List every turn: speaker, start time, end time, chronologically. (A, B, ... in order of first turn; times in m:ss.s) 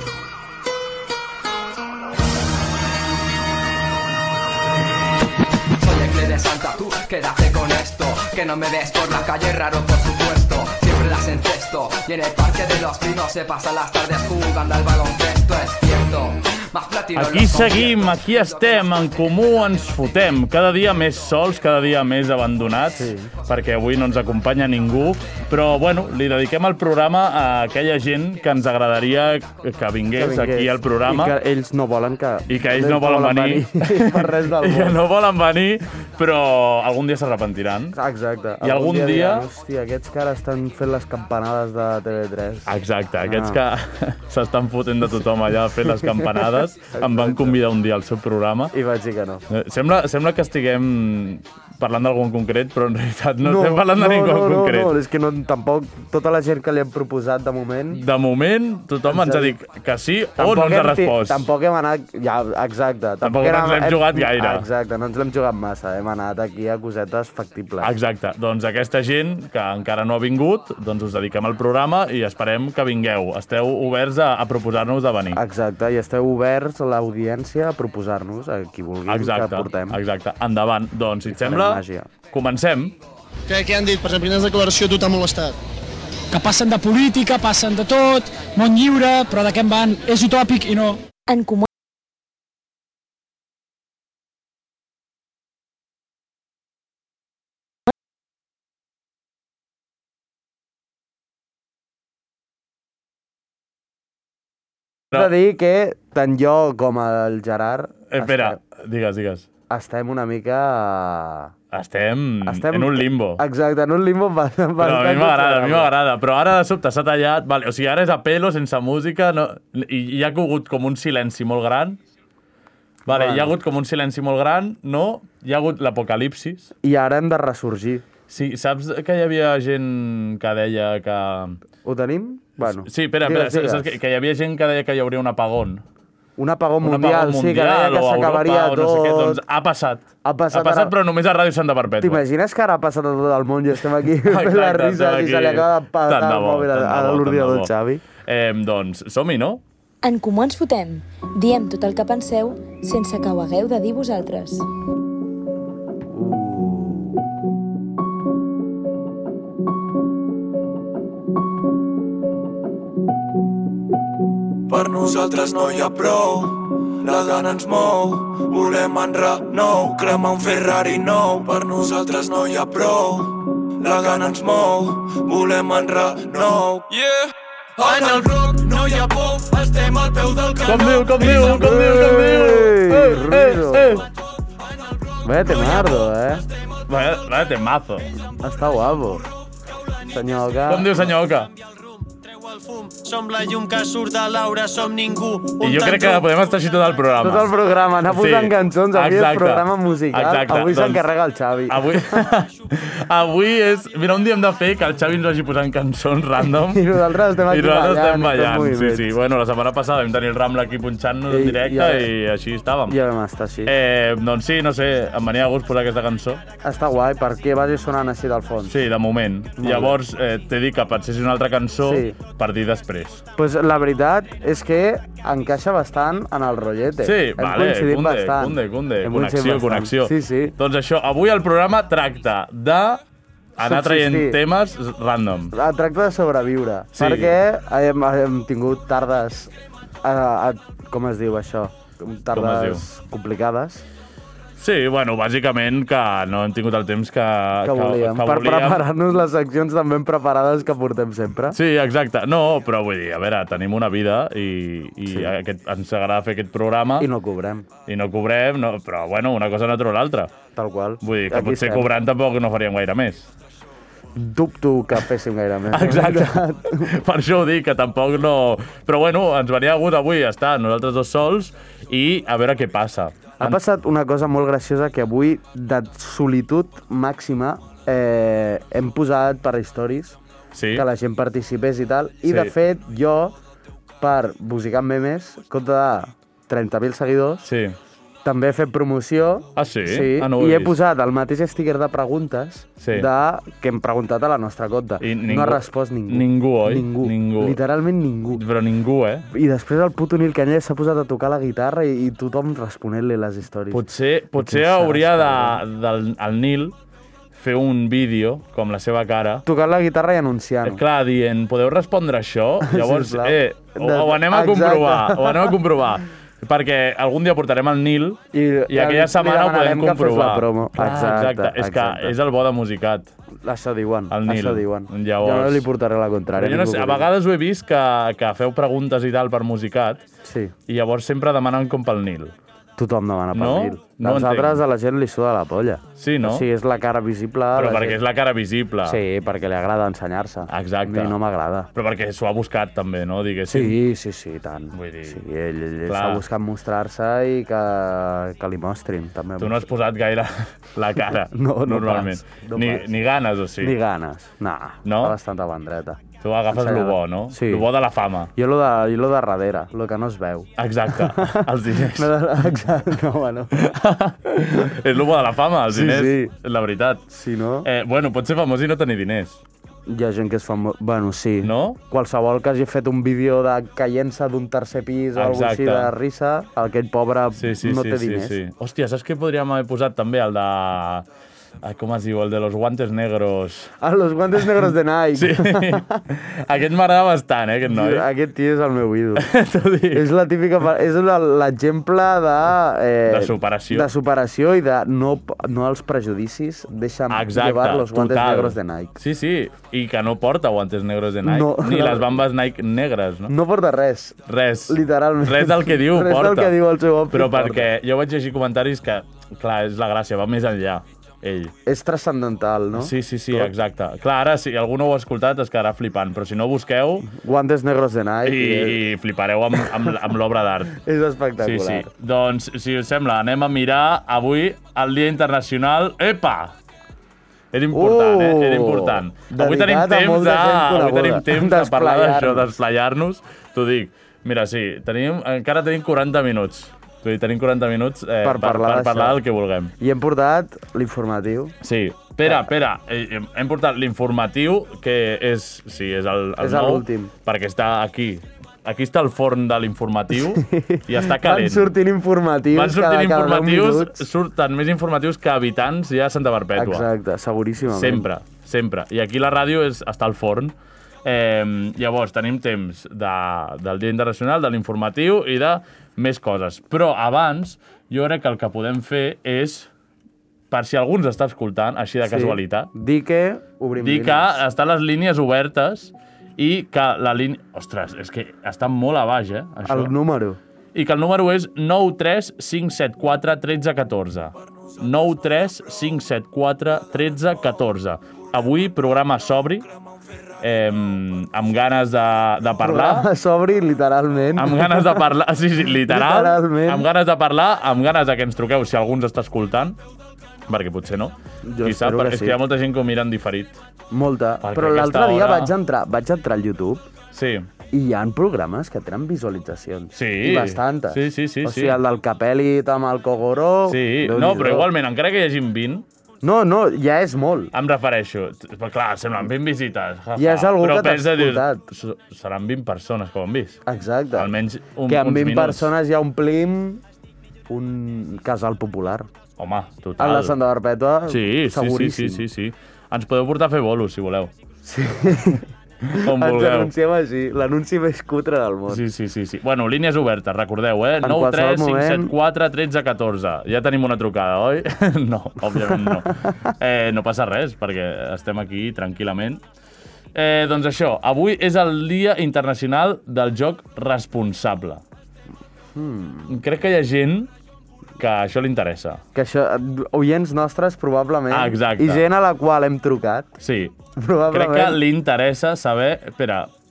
0:05.8-0:19.0 A
0:17.1-0:31.4 B
0:22.8-0:23.3 C
0:30.2-0:35.0 C
0:32.5-0:38.0 B
0:37.9-0:42.7 C
0:38.6-0:39.5 B
0:42.6-0:48.7 B
0:43.2-0:43.6 C
0:45.8-0:47.6 C
0:48.7-0:49.4 C
0:49.5-0:54.9 B
0:53.4-0:58.0 C
0:57.9-1:01.4 B
0:59.1-0:59.6 C
1:00.4-1:07.9 C
1:03.2-1:04.6 B
1:07.8-1:15.4 B
1:15.3-1:20.0 C
1:19.1-1:23.0 B
1:21.3-1:22.1 C
1:23.5-1:25.0 D
1:23.5-1:25.5 E
1:26.3-1:31.0 F
1:31.3-1:31.7 G
1:45.1-1:48.6 C
1:48.1-1:49.5 B
1:49.7-1:51.5 C
1:51.7-1:53.4 B
1:52.4-1:55.9 C
1:54.8-2:02.0 B
2:03.0-2:06.7 B
2:03.1-2:03.5 C
2:06.8-2:08.0 C
2:08.3-2:11.6 B
2:11.8-2:13.9 C
2:12.6-2:15.8 B
2:16.4-2:19.4 C
2:16.8-2:22.2 B
2:20.2-2:20.9 C
2:22.0-2:28.0 C
2:24.2-2:27.7 B
2:28.2-2:29.6 B
2:30.0-2:34.6 G
2:36.1-2:37.2 C
2:44.7-2:57.3 H
2:57.8-3:01.4 H
3:00.6-3:04.1 B
3:01.4-3:04.1 C
3:05.2-3:06.4 C
3:05.5-3:06.0 H
3:06.9-3:08.1 B
3:08.4-3:09.2 C
3:10.1-3:11.0 C
3:10.6-3:11.5 B
3:11.6-3:16.4 D
3:15.6-3:17.5 B
3:17.2-3:22.0 C
3:18.0-3:21.0 B
3:21.7-3:33.0 B
3:26.4-3:29.1 C
3:31.3-3:32.1 C
3:32.9-3:33.7 C
3:33.7-3:36.4 B
3:36.6-3:38.8 C
3:38.7-3:43.2 B
3:39.6-3:40.0 C
3:41.8-3:42.2 C
3:43.4-3:50.5 C
3:47.0-3:53.0 B
3:53.6-3:55.5 B
3:53.6-3:54.4 C
3:55.5-3:59.5 C
3:56.9-3:57.4 B
4:00.0-4:03.8 C
4:02.3-4:02.8 B
4:04.6-4:08.8 B
4:07.6-4:11.6 C
4:11.5-4:17.1 B
4:17.0-4:17.6 C
4:17.9-4:20.3 B
4:20.6-4:21.9 C
4:21.0-4:23.3 B
4:24.2-4:26.9 C
4:25.7-4:33.6 B
4:33.4-4:40.2 C
4:40.5-4:40.8 B
4:40.7-4:43.3 C
4:42.2-4:42.5 B
4:44.0-4:47.4 C
4:47.4-4:47.8 B
4:48.2-4:58.4 C
4:49.6-4:50.8 B
4:52.8-4:53.1 B
4:55.0-4:57.6 B
4:58.3-4:59.3 B
4:59.3-5:03.8 C
5:03.7-5:06.7 B
5:04.4-5:05.6 C
5:07.3-5:09.4 B
5:09.4-5:10.8 C
5:10.6-5:23.1 B
5:12.6-5:15.6 C
5:18.3-5:22.2 C
5:23.4-5:27.1 C
5:24.1-5:25.6 B
5:26.3-5:30.0 B
5:30.2-5:30.5 C
5:30.7-5:32.3 B
5:32.8-5:38.0 C
5:33.3-5:34.6 B
5:36.0-5:36.5 B
5:37.5-5:39.0 B
5:38.8-5:41.7 C
5:40.5-5:41.2 B
5:41.7-5:43.8 B
5:43.5-5:49.6 C
5:44.7-5:45.2 B
5:45.8-5:46.2 B
5:49.4-5:53.7 B
5:51.3-5:52.8 C
5:53.6-5:56.0 C
5:54.8-5:55.2 B
5:56.2-5:58.3 B
5:56.5-5:57.6 C
5:58.4-6:03.6 C
6:00.6-6:02.1 B
6:03.5-6:07.0 B
6:05.7-6:06.3 C
6:07.1-6:07.7 C
6:07.6-6:09.4 B
6:09.9-6:18.4 C
6:11.4-6:11.8 B
6:15.1-6:15.9 B
6:17.3-6:21.0 B
6:21.6-6:23.7 B
6:23.8-6:26.0 C
6:25.1-6:28.1 B
6:27.7-6:29.3 C
6:29.2-6:30.1 B
6:29.9-6:39.0 C
6:33.1-6:33.9 B
6:37.1-6:43.3 B
6:41.2-6:42.2 C
6:43.3-6:44.2 C
6:44.2-6:46.6 B
6:44.7-6:47.7 C
6:47.1-6:51.5 B
6:51.6-6:53.5 C
6:52.7-6:57.1 B
6:57.0-6:58.8 C
6:58.2-7:00.8 B
6:59.6-6:59.9 C
7:00.8-7:01.9 C
7:01.4-7:06.5 B
7:07.5-7:19.7 B
7:07.7-7:12.5 C
7:18.2-7:19.2 C
7:19.8-7:21.5 C
7:21.6-7:31.7 B
7:26.4-7:27.1 C
7:30.2-7:34.0 C
7:32.5-7:36.9 B
7:36.6-7:38.1 C
7:37.7-7:49.7 B
7:50.5-7:52.7 B
7:52.0-7:54.3 C
7:53.8-7:59.9 B
7:59.6-8:00.4 C
8:00.7-8:09.7 B
8:10.4-8:13.1 B
8:12.6-8:15.1 C
8:14.4-8:19.8 B
8:15.8-8:16.9 C
8:20.5-8:23.6 B
8:21.4-8:22.4 C
8:23.9-8:26.8 C
8:24.4-8:25.5 B
8:27.1-8:27.5 B
8:27.7-8:34.7 C
8:29.9-8:31.8 B
8:33.7-8:35.8 B
8:36.2-8:37.5 C
8:37.5-8:43.6 B
8:40.2-8:41.6 C
8:43.6-8:44.3 C
8:44.2-8:45.7 B
8:44.9-8:46.8 C
8:47.5-8:49.1 C
8:49.4-8:50.4 B
8:50.0-8:52.2 C
8:51.1-8:54.3 B
8:54.6-8:58.8 C
8:55.9-8:56.7 B
8:58.7-9:09.4 B
9:01.0-9:02.1 C
9:05.6-9:06.5 C
9:10.1-9:14.8 B
9:15.7-9:16.4 C
9:16.3-9:17.3 B
9:18.0-9:19.0 B
9:19.1-9:23.4 C
9:21.3-9:22.0 B
9:23.4-9:23.7 B
9:24.0-9:24.8 C
9:24.3-9:26.5 B